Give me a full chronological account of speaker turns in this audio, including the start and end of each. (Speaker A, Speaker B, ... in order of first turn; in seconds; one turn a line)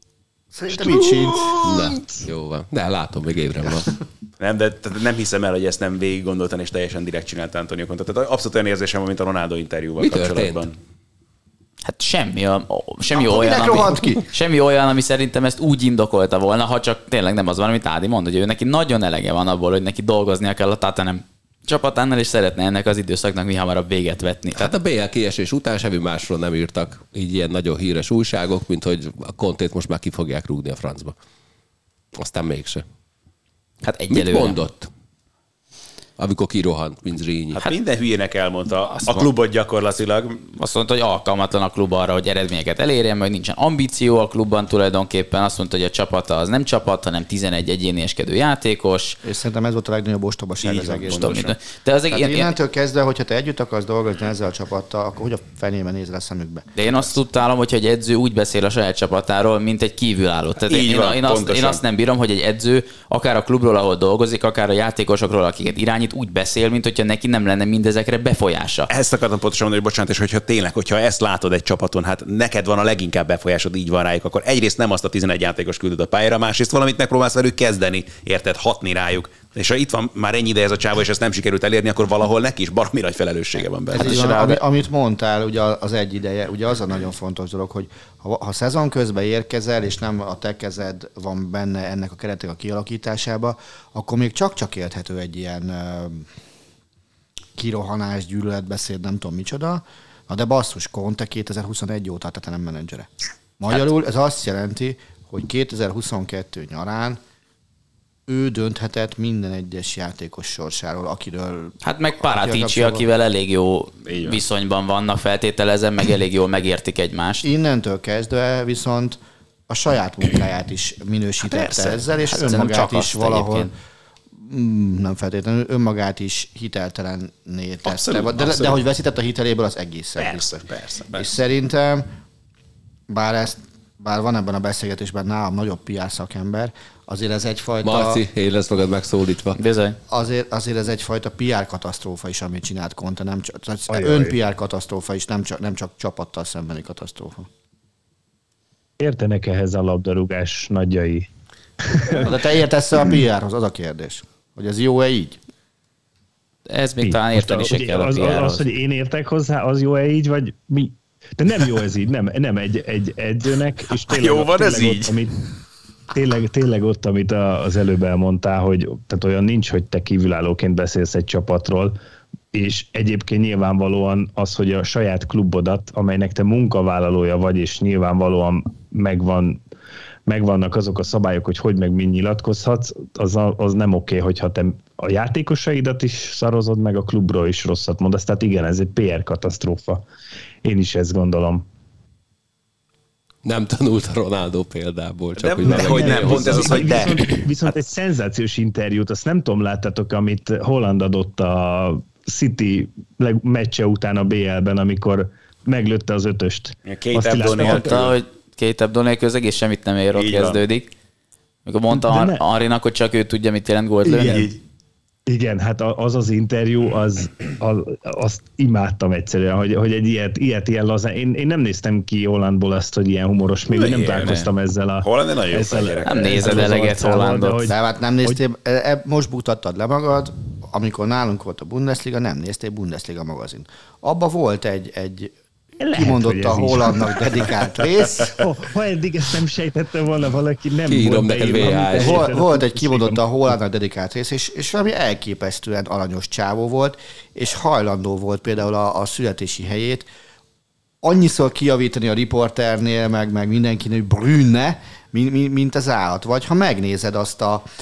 Speaker A: 0.5-1.7
Speaker B: 1.6-3.9
Speaker C: 1.9-2.2
Speaker D: 4.4-10.8
Speaker B: 10.0-10.6
Speaker E: 11.8-24.7
Speaker A: 13.1-14.2
Speaker B: 24.6-31.1
Speaker B: 32.1-32.8
Speaker E: 33.8-34.6
Speaker B: 34.1-34.9
Speaker B: 36.2-37.6
Speaker D: 37.6-40.5
Speaker E: 40.6-49.2
Speaker A: 49.2-51.4
Speaker D: 50.6-51.5
Speaker E: 51.1-52.5
Speaker A: 52.1-57.1
Speaker E: 56.8-68.9
Speaker D: 60.7-61.8
Speaker D: 68.9-84.3
Speaker A: 83.9-96.3
Speaker E: 83.9-84.6
Speaker A: 97.5-103.1
Speaker A: 103.6-107.2
Speaker A: 108.3-113.0
Speaker E: 111.8-117.5
Speaker D: 114.0-114.4
Speaker A: 117.4-119.2
Speaker A: 119.7-123.7
Speaker E: 121.4-123.7
Speaker A: 124.3-130.6
Speaker D: 127.8-128.8
Speaker D: 130.2-131.3
Speaker A: 131.1-132.1
Speaker A: 133.1-138.2
Speaker B: 137.8-139.6
Speaker E: 139.6-140.0
Speaker A: 140.1-147.5
Speaker C: 143.9-144.3
Speaker C: 149.0-151.3
Speaker C: 151.8-152.5
Speaker A: 152.1-155.4
Speaker E: 156.7-158.7
Speaker C: 157.0-165.3
Speaker D: 164.0-165.2
Speaker C: 166.1-171.9
Speaker C: 172.5-179.6
Speaker C: 180.2-190.0
Speaker C: 190.6-191.7
Speaker B: 193.4-197.2
Speaker D: 195.3-197.7
Speaker C: 195.6-207.9
Speaker D: 206.8-208.1
Speaker E: 207.5-210.9
Speaker D: 210.1-210.6
Speaker E: 211.7-214.5
Speaker C: 211.9-212.4
Speaker C: 214.1-214.5
Speaker C: 215.3-228.4
Speaker D: 223.7-224.5
Speaker D: 225.0-226.7
Speaker E: 226.0-227.7
Speaker A: 227.7-235.3
Speaker C: 235.8-237.5
Speaker A: 235.9-238.5
Speaker C: 238.3-243.2
Speaker B: 240.9-242.3
Speaker A: 241.6-250.1
Speaker A: 251.0-257.6